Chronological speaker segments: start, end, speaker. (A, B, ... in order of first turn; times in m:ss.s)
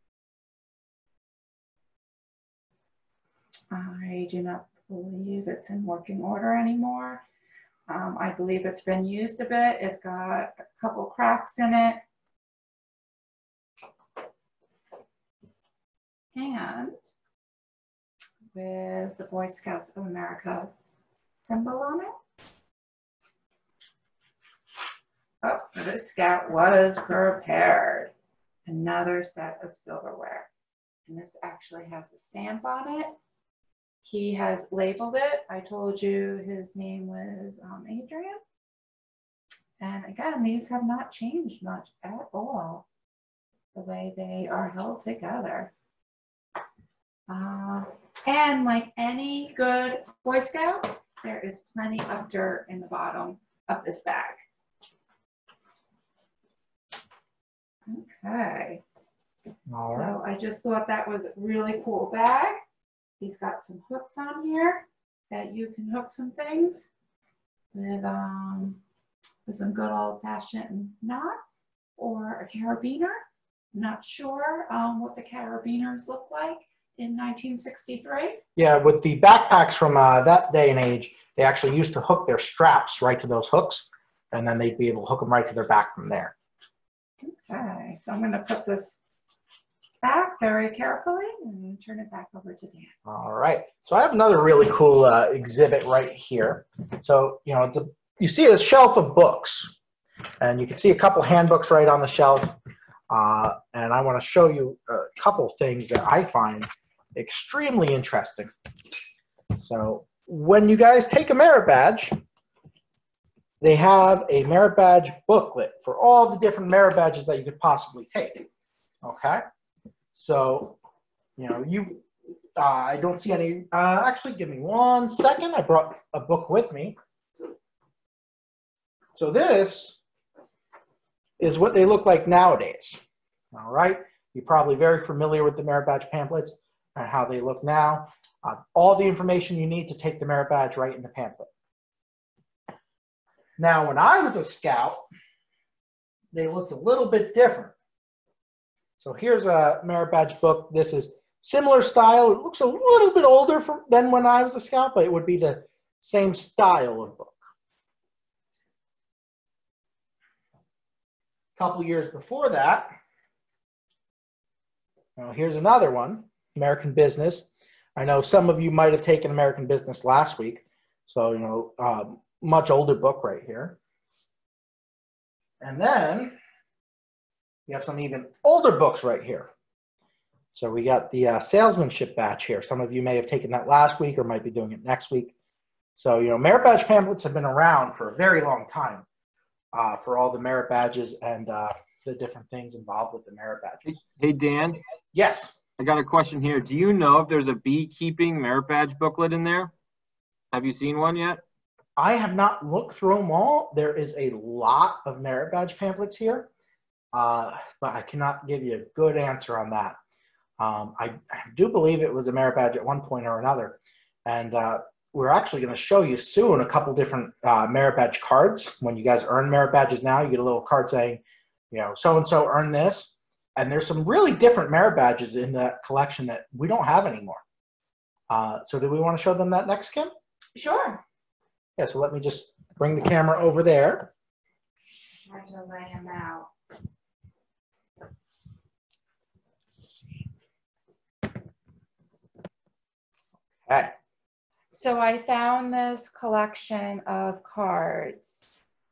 0:03.7-0:07.2 A
0:07.9-0:12.0 A
0:16.3-0:17.0 A
0:18.5-0:20.7 A
0:21.4-0:22.2 A
0:25.4-0:28.1 A
0:28.6-0:30.5 A
0:31.0-0:33.2 A
0:34.0-0:38.4 A
0:39.8-0:42.8 A
0:43.7-0:45.7 A
0:47.3-0:54.4 A
0:57.9-0:58.8 A
0:59.7-1:00.1 B
0:59.9-1:02.6 A
1:03.2-1:06.9 A
1:07.7-1:08.8 A
1:09.4-1:13.2 A
1:13.7-1:18.4 A
1:18.6-1:26.3 B
1:27.2-1:29.0 A
1:30.0-1:32.9 A
1:33.0-1:39.7 B
1:40.4-1:42.6 B
1:43.1-1:48.5 B
1:49.6-1:52.2 B
1:53.6-1:58.4 B
1:59.0-1:59.4 B
2:00.1-2:00.8 B
2:01.4-2:02.0 B
2:02.6-2:07.0 B
2:09.1-2:10.0 B
2:11.4-2:13.0 B
2:13.5-2:21.5 B
2:23.6-2:25.0 B
2:26.3-2:27.7 B
2:29.0-2:37.4 B
2:41.6-2:42.9 B
2:45.2-2:53.8 B
2:55.6-2:56.3 B
2:57.7-2:59.5 B
3:00.5-3:05.3 B
3:06.0-3:09.0 B
3:09.7-3:13.9 B
3:13.8-3:14.8 C
3:15.1-3:15.5 B
3:15.8-3:19.7 C
3:20.5-3:21.4 C
3:22.0-3:26.5 B
3:27.1-3:30.0 B
3:30.6-3:47.4 B
3:48.3-3:50.1 B
3:50.5-3:51.0 A
3:51.8-3:54.1 B
3:55.2-3:56.5 A
3:59.7-4:00.0 B
4:03.6-4:03.9 B
4:04.7-4:08.4 A